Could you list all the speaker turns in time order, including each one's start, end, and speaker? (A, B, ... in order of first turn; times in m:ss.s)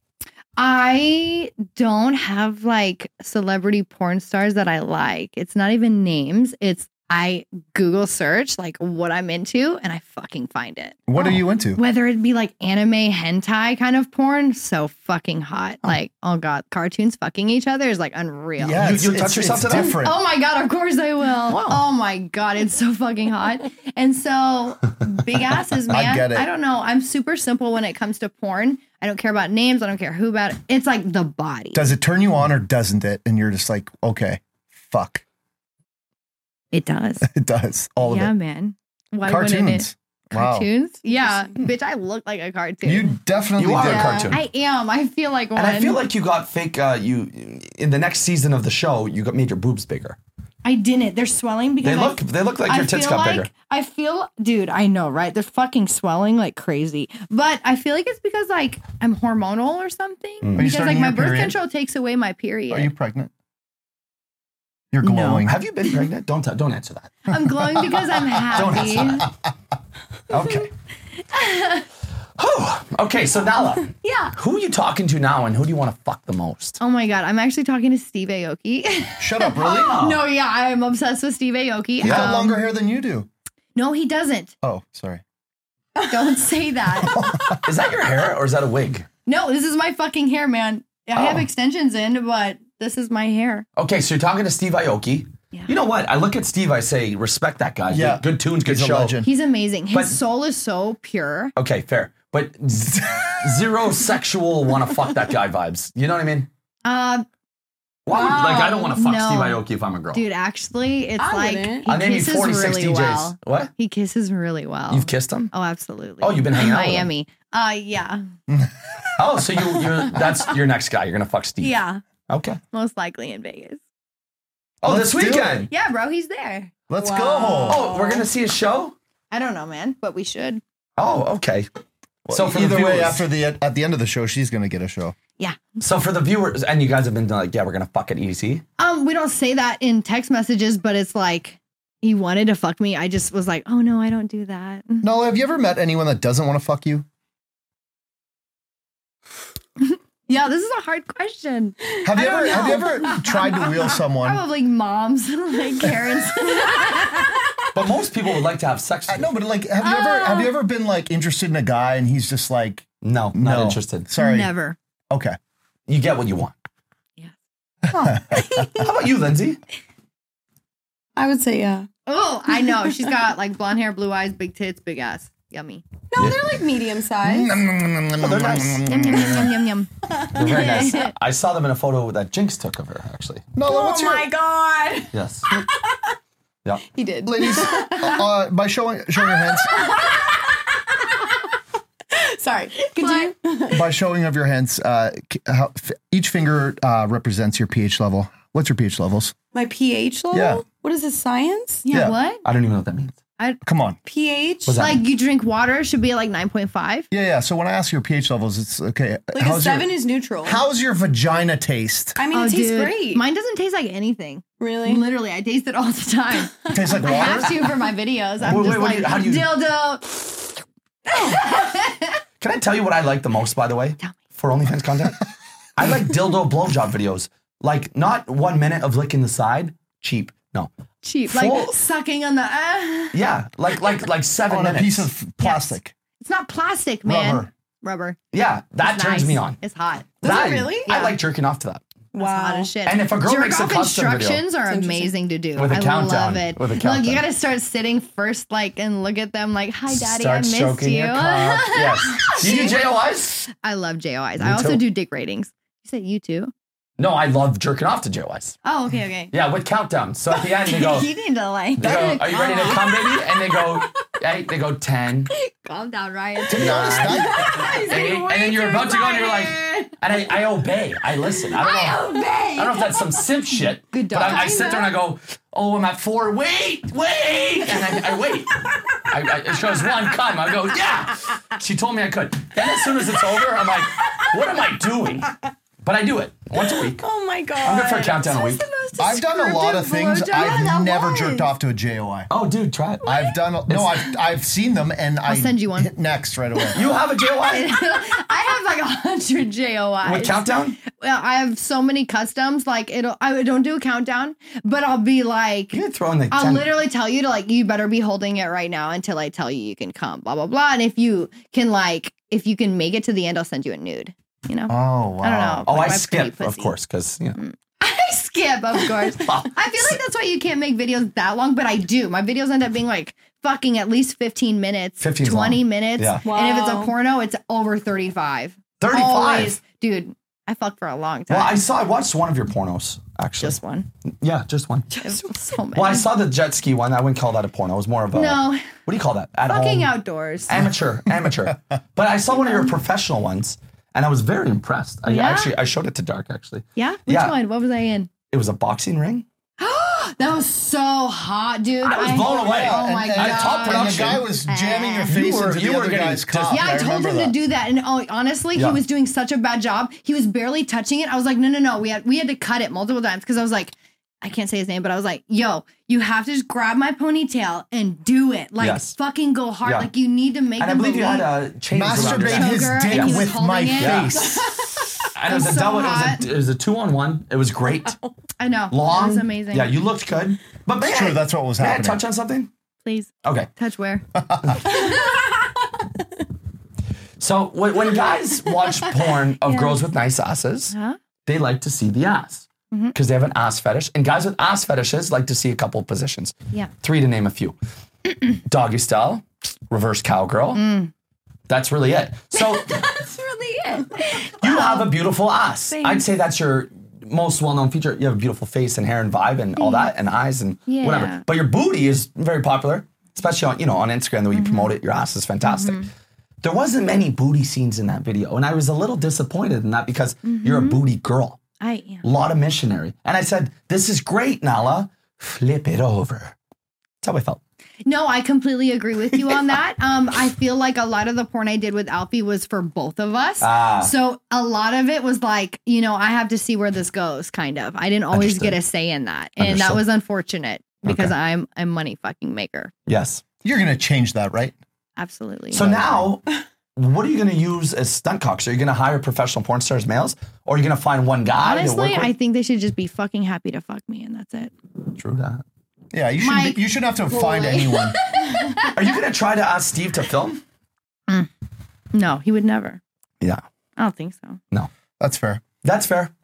0:00.6-0:18.9 A
0:11.1-0:11.8 B
0:18.6-0:20.2 B
0:18.8-0:20.0 C
0:20.0-0:31.9 A
0:21.5-0:21.8 C
0:25.9-0:26.5 B
0:31.7-0:35.2 B
0:36.7-0:37.3 A
0:37.2-0:38.3 B
0:38.0-0:43.2 A
0:39.2-0:40.7 B
0:42.8-0:44.3 B
0:43.6-0:44.4 C
0:43.8-0:44.3 D
0:44.3-0:46.0 A
0:45.6-0:50.2 C
0:50.6-1:02.9 A
0:51.8-0:53.5 C
1:00.4-1:00.7 C
1:00.6-1:01.6 B
1:02.7-1:03.3 B
1:04.9-1:05.6 B
1:05.0-1:05.5 A
1:05.4-1:07.3 C
1:07.3-1:09.3 A
1:08.5-1:09.3 C
1:10.3-1:10.7 C
1:11.3-1:11.8 A
1:12.4-1:16.8 C
1:14.0-1:14.3 A
1:16.8-1:22.6 A
1:19.2-1:20.0 B
1:19.6-1:20.2 C
1:22.0-1:23.3 B
1:23.8-1:24.5 A
1:24.6-1:25.2 B
1:26.0-1:27.3 A
1:27.0-1:27.6 B
1:27.6-1:29.0 C
1:29.2-1:33.6 A
1:31.1-1:31.4 C
1:33.8-1:39.2 C
1:37.9-1:39.3 B
1:39.2-1:41.5 A
1:39.9-1:40.2 C
1:41.6-1:46.5 C
1:43.0-1:43.6 B
1:46.8-1:47.3 A
1:48.0-1:50.2 C
1:48.1-1:48.9 D
1:48.2-1:58.2 A
1:51.2-1:51.9 D
1:51.9-1:53.7 C
1:54.9-1:55.5 C
1:56.2-1:57.1 C
1:59.2-2:01.8 C
2:01.6-2:02.0 A
2:02.3-2:02.6 C
2:02.7-2:03.8 A
2:04.8-2:05.7 C
2:04.8-2:05.7 B
2:05.7-2:06.7 A
2:06.9-2:07.9 B
2:07.0-2:08.2 D
2:07.7-2:08.9 C
2:09.3-2:10.6 A
2:11.0-2:11.7 C
2:12.2-2:15.2 B
2:12.3-2:13.2 C
2:15.8-2:18.6 C
2:18.8-2:25.1 A
2:25.0-2:27.1 B
2:29.8-2:37.4 A
2:32.0-2:34.4 B
2:32.1-2:33.8 D
2:36.6-2:36.9 D
2:37.7-2:39.3 C
2:39.1-2:44.5 B
2:39.8-2:40.5 A
2:43.0-2:44.1 C
2:44.2-2:44.8 A
2:45.1-2:45.4 B
2:45.9-2:46.5 C
2:47.9-2:48.9 A
2:47.9-2:48.6 B
2:48.7-2:49.6 C
2:51.2-2:51.9 D
2:52.1-2:55.8 A
2:56.1-2:57.5 D
2:56.2-2:56.4 C
2:57.2-2:59.5 B
2:58.2-2:58.9 C
2:58.9-3:01.1 A
3:00.1-3:01.1 D
3:00.3-3:03.5 C
3:03.6-3:04.3 B
3:03.6-3:06.2 D
3:05.1-3:05.5 C
3:06.9-3:08.2 D
3:07.2-3:09.9 B
3:09.2-3:11.5 D
3:12.1-3:13.9 D
3:13.0-3:13.3 A
3:13.7-3:19.4 B
3:19.5-3:22.0 D
3:20.3-3:20.6 B
3:21.8-3:22.4 A
3:21.9-3:22.2 B
3:22.4-3:23.2 C
3:23.6-3:24.0 B
3:24.0-3:24.8 D
3:24.6-3:25.0 C
3:24.8-3:27.1 A
3:27.1-3:32.2 B
3:29.3-3:30.6 D
3:32.1-3:33.2 D
3:32.3-3:42.2 A
3:34.6-3:35.0 D
3:36.7-3:37.3 D
3:36.7-3:37.6 B
3:38.4-3:39.6 C
3:42.4-3:45.2 C
3:45.8-3:50.7 C
3:51.0-3:53.2 A
3:51.3-3:51.7 C
3:53.1-3:55.1 C
3:54.5-3:55.9 B
3:55.4-3:58.2 A
3:57.0-3:57.5 B
3:58.3-3:59.6 C
3:58.8-4:00.2 A
4:00.2-4:00.9 D
4:00.2-4:01.8 C
4:00.9-4:01.2 A
4:02.1-4:02.7 D
4:02.2-4:12.8 A
4:02.9-4:04.4 C
4:04.7-4:05.1 D
4:05.6-4:07.2 C
4:09.9-4:13.4 C
4:12.4-4:12.7 D
4:13.5-4:16.5 A
4:14.4-4:14.8 C
4:17.0-4:18.6 C
4:18.6-4:19.3 A
4:19.3-4:21.1 C
4:20.3-4:23.2 A
4:21.8-4:25.3 C
4:22.3-4:22.8 D
4:25.3-4:27.9 A
4:26.5-4:45.3 C
4:26.5-4:27.5 B
4:27.1-4:29.6 D
4:29.4-4:29.9 A
4:31.4-4:32.2 D
4:31.5-4:32.9 A
4:33.9-4:34.9 A
4:34.2-4:34.5 D
4:37.7-4:39.9 D
4:42.7-4:45.5 D
4:45.8-4:47.0 C
4:46.6-4:48.5 D
4:47.6-4:48.6 C
4:48.3-4:51.5 A
4:49.0-4:52.3 B
4:52.3-4:53.0 C
4:53.0-4:56.9 B
4:53.7-4:54.0 C
4:55.2-4:55.9 A
4:56.7-4:57.7 C
4:57.4-5:05.8 A
5:00.0-5:00.8 C
5:05.7-5:06.7 C
5:06.3-5:16.7 A
5:14.7-5:15.6 B
5:15.6-5:17.4 C
5:17.4-5:31.6 A
5:19.1-5:20.0 C
5:25.0-5:26.2 C
5:26.2-5:26.9 D
5:28.8-5:29.6 C
5:31.3-5:33.6 C
5:33.4-5:33.9 A
5:34.2-5:34.9 C
5:35.0-5:36.1 A
5:35.7-5:39.9 C
5:38.1-5:38.7 A
5:39.5-5:40.7 A
5:40.5-5:47.4 C
5:42.3-5:42.7 A
5:45.1-5:45.5 A
5:46.8-5:48.1 A
5:48.3-5:49.2 C
5:49.6-5:55.2 A
5:51.8-5:54.3 C
5:52.4-5:57.4 B
5:55.1-5:56.7 C
5:56.5-6:11.3 A
5:58.6-5:58.8 C
6:08.6-6:08.9 C
6:09.6-6:09.9 C
6:10.6-6:14.4 C
6:11.7-6:14.4 B
6:11.9-6:14.7 A
6:15.1-6:18.0 C
6:15.3-6:16.3 A
6:18.4-6:19.7 A
6:18.7-6:22.5 C
6:20.8-6:22.0 B
6:22.8-6:24.0 A
6:23.2-6:23.5 C
6:24.2-6:24.6 B
6:24.6-6:26.0 D
6:27.2-6:30.7 C
6:29.4-6:29.7 A
6:30.7-6:31.0 A
6:31.2-6:37.6 C
6:38.3-6:40.6 C
6:40.6-6:40.9 A
6:41.5-6:42.9 C
6:42.4-6:44.2 D
6:44.0-6:44.9 A
6:44.4-6:55.8 C
6:45.7-6:46.0 A
6:49.6-6:49.9 A
6:50.7-6:51.2 A
6:54.3-6:54.7 A
6:55.4-6:55.9 A
6:56.4-7:01.4 C
7:00.2-7:00.8 A
7:01.6-7:02.0 A
7:02.0-7:06.4 C
7:07.0-7:07.4 C
7:07.8-7:22.7 A
7:13.4-7:13.9 C
7:18.1-7:18.6 C
7:19.4-7:19.8 C
7:20.8-7:21.1 C
7:22.9-7:23.2 C
7:23.4-7:24.5 B
7:25.0-7:25.7 A
7:25.5-7:26.2 C
7:25.6-7:26.1 B
7:26.8-7:32.1 C
7:31.4-7:34.5 A
7:35.0-7:35.4 C
7:35.9-7:38.0 B
7:36.2-7:38.7 A
7:37.1-7:38.6 D
7:38.7-7:40.4 C
7:41.9-7:42.8 A
7:43.8-7:44.4 A
7:45.0-7:45.4 B
7:45.6-7:46.1 C